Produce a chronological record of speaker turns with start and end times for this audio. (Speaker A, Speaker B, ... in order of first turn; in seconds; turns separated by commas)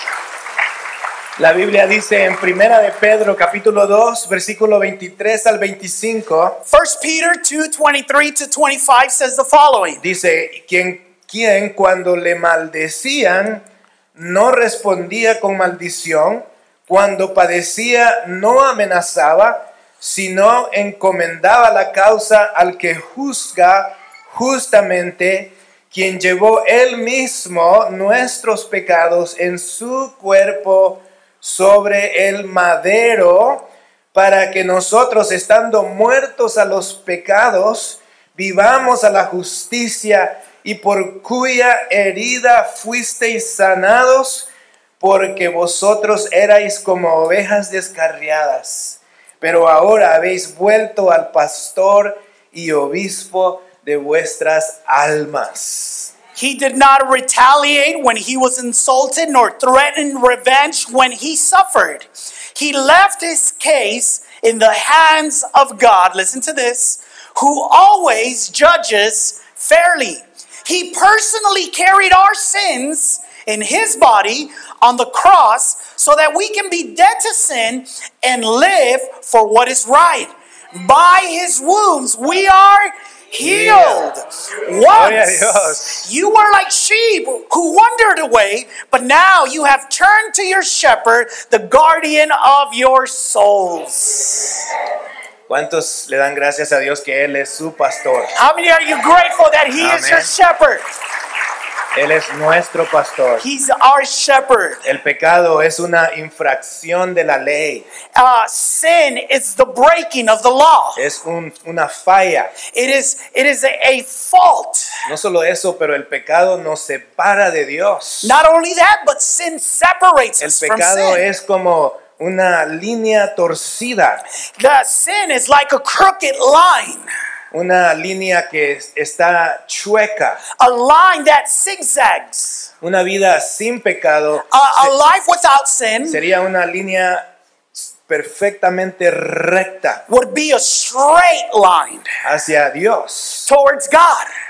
Speaker A: 1.4-6.6, Speaker B: 6.7-10.0, Speaker A: 10.0-13.6, Speaker A: 14.2-44.5, Speaker A: 45.0-56.1, Speaker B: 56.4-94.7, Speaker A: 83.4-84.2, Speaker A: 84.9-86.1, Speaker A: 95.5-98.3, Speaker B: 98.3-100.8, Speaker A: 99.8-100.3, Speaker A: 101.9-103.5, Speaker B: 103.4-104.8, Speaker A: 104.8-107.9, Speaker B: 108.1-111.0, Speaker A: 111.0-112.6, Speaker B: 112.6-115.0, Speaker A: 115.0-118.4, Speaker B: 118.2-121.3, Speaker A: 120.4-124.2, Speaker B: 124.6-127.1, Speaker A: 127.5-130.4, Speaker B: 130.6-132.7, Speaker A: 132.8-134.9, Speaker B: 134.5-136.2, Speaker A: 136.1-140.0, Speaker B: 140.1-142.1, Speaker A: 142.2-143.5, Speaker B: 143.5-144.3